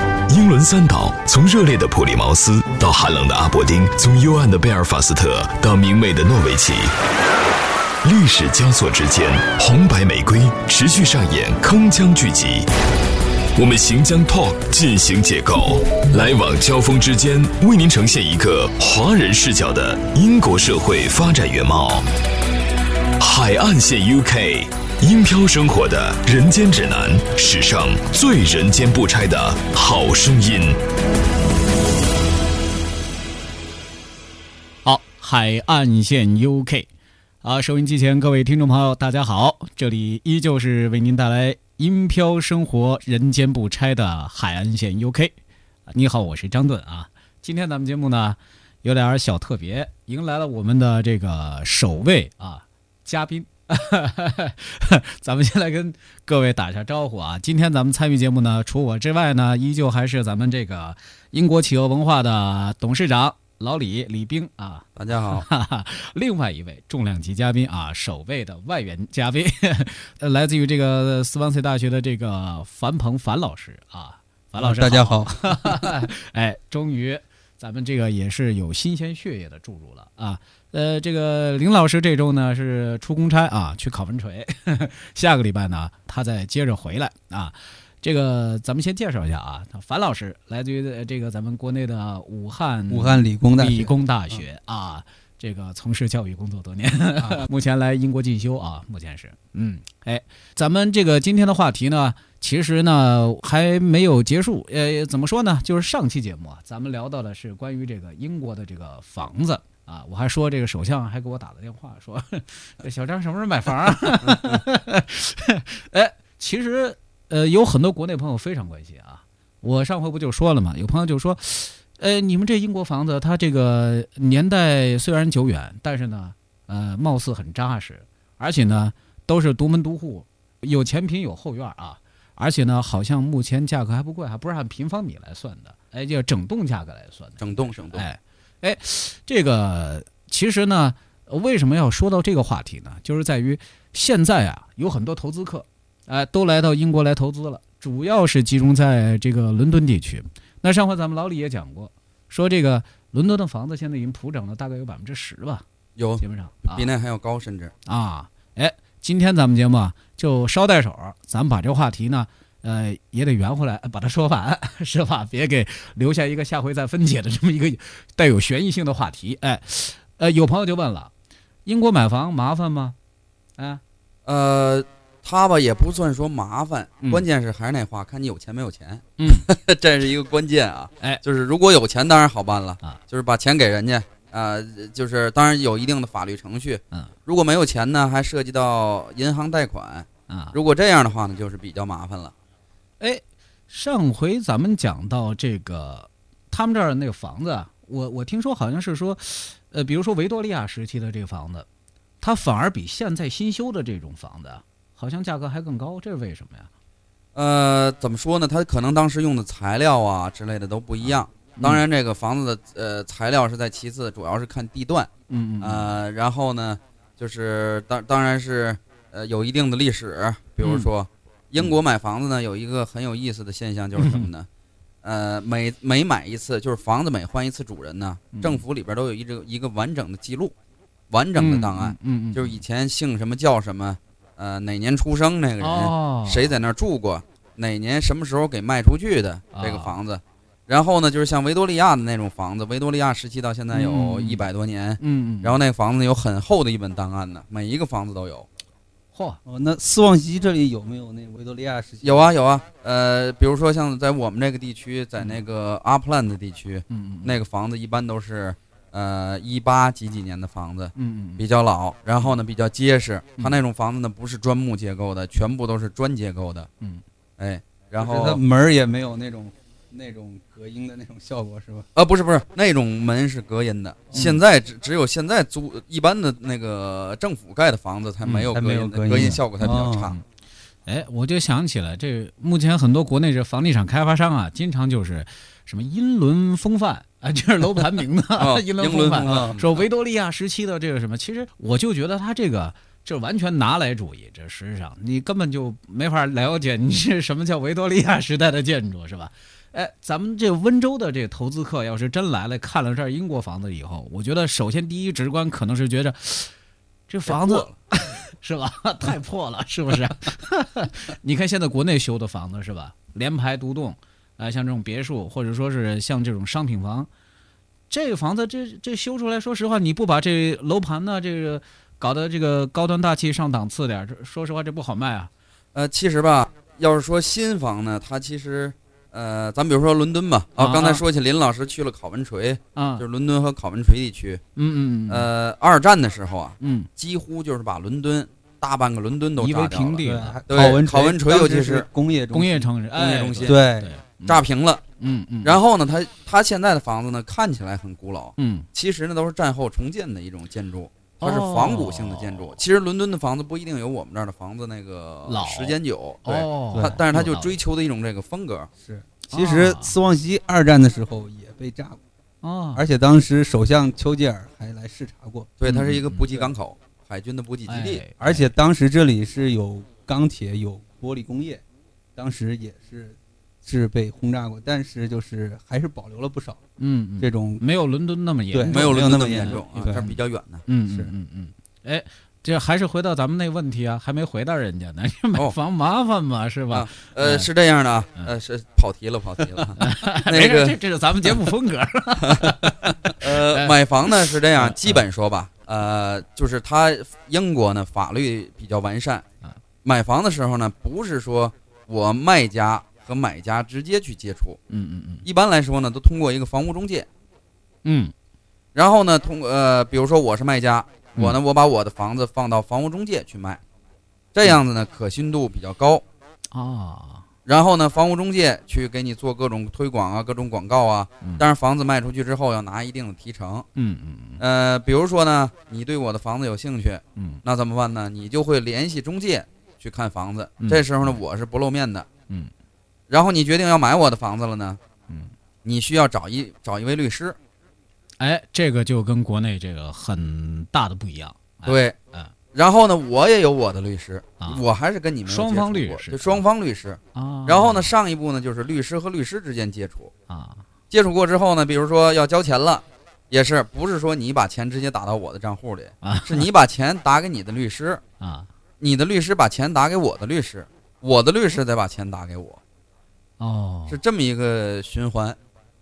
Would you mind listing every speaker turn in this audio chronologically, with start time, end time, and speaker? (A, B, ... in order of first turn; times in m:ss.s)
0:00.3-0:06.9 A
0:08.0-0:12.7 A
0:13.6-0:22.0 A
0:23.2-0:30.8 A
0:34.8-0:36.9 B
0:37.4-0:45.3 B
0:45.9-2:35.6 B
1:05.0-1:05.4 C
1:14.6-1:15.9 D
1:32.9-1:34.4 D
1:37.2-1:37.4 D
2:17.4-2:18.0 C
2:36.0-2:37.7 C
2:36.2-2:36.9 B
2:37.8-2:51.1 B
2:51.6-2:53.0 B
2:53.6-2:53.8 B
2:54.2-3:12.3 C
2:59.2-2:59.5 B
3:10.3-3:10.6 B
3:13.0-3:21.6 B
3:22.2-3:26.7 B
3:27.3-3:35.1 C
3:31.0-3:31.8 B
3:35.3-3:35.9 B
3:35.6-3:44.5 C
3:40.6-3:40.9 B
3:44.0-3:44.3 B
3:45.0-3:50.5 C
3:48.3-3:48.6 B
3:51.1-4:08.5 C
3:51.4-3:52.6 B
3:55.6-3:56.5 B
3:59.5-3:59.9 B
4:03.7-4:04.4 B
4:05.0-4:05.6 B
4:09.1-4:09.4 B
4:09.4-4:12.3 D
4:12.0-4:26.7 C
4:16.9-4:17.4 B
4:20.9-4:21.4 B
4:27.4-4:28.4 C
4:28.0-4:31.9 D
4:31.9-4:40.2 C
4:38.4-4:40.1 D
4:40.8-5:06.5 B
4:48.4-4:49.8 C
4:49.2-4:49.6 D
5:07.1-5:17.1 B
5:07.3-5:07.7 C
5:17.9-5:25.3 B
5:25.7-5:34.4 C
5:30.6-5:31.0 B
5:32.8-5:33.0 B
5:34.6-5:35.3 B
5:35.1-5:41.9 C
5:36.6-5:36.9 B
5:39.4-5:40.4 B
5:40.0-5:43.9 D
5:42.3-5:44.4 B
5:43.0-5:43.6 C
5:44.2-5:44.8 C
5:45.0-5:45.6 B
5:45.4-5:58.7 C
5:48.4-5:48.7 B
5:51.2-5:52.6 B
5:55.3-5:57.5 B
5:56.7-5:57.3 D
5:58.8-6:02.0 D
5:59.3-6:00.0 B
6:02.4-6:02.8 B
6:02.7-6:05.5 D
6:05.6-6:08.0 C
6:05.6-6:06.3 B
6:07.7-6:08.5 B
6:08.2-6:11.6 D
6:12.2-6:16.6 D
6:16.8-6:27.5 B
6:17.2-6:17.6 D
6:18.5-6:20.0 D
6:18.7-6:20.6 C
6:26.7-6:30.8 C
6:29.7-6:35.0 B
6:32.2-6:39.2 C
6:39.8-6:44.6 C
6:44.7-6:45.2 B
6:45.2-6:47.1 C
6:47.8-6:48.1 B
6:48.7-6:53.6 C
6:54.3-6:56.0 C
6:56.5-6:57.2 B
6:57.4-7:03.7 C
7:03.8-7:04.4 B
7:04.4-7:12.1 C
7:07.2-7:07.4 B
7:10.6-7:11.1 B
7:13.1-7:14.8 C
7:15.6-7:17.4 C
7:18.2-7:22.3 B
7:21.6-7:22.0 C
7:22.5-7:30.1 C
7:25.2-7:26.4 B
7:27.1-7:27.9 B
7:30.3-7:30.6 B
7:30.9-7:38.0 C
7:36.0-7:36.5 B
7:38.2-7:38.5 B
7:38.8-7:42.6 C
7:43.4-7:44.0 B
7:43.9-7:45.4 C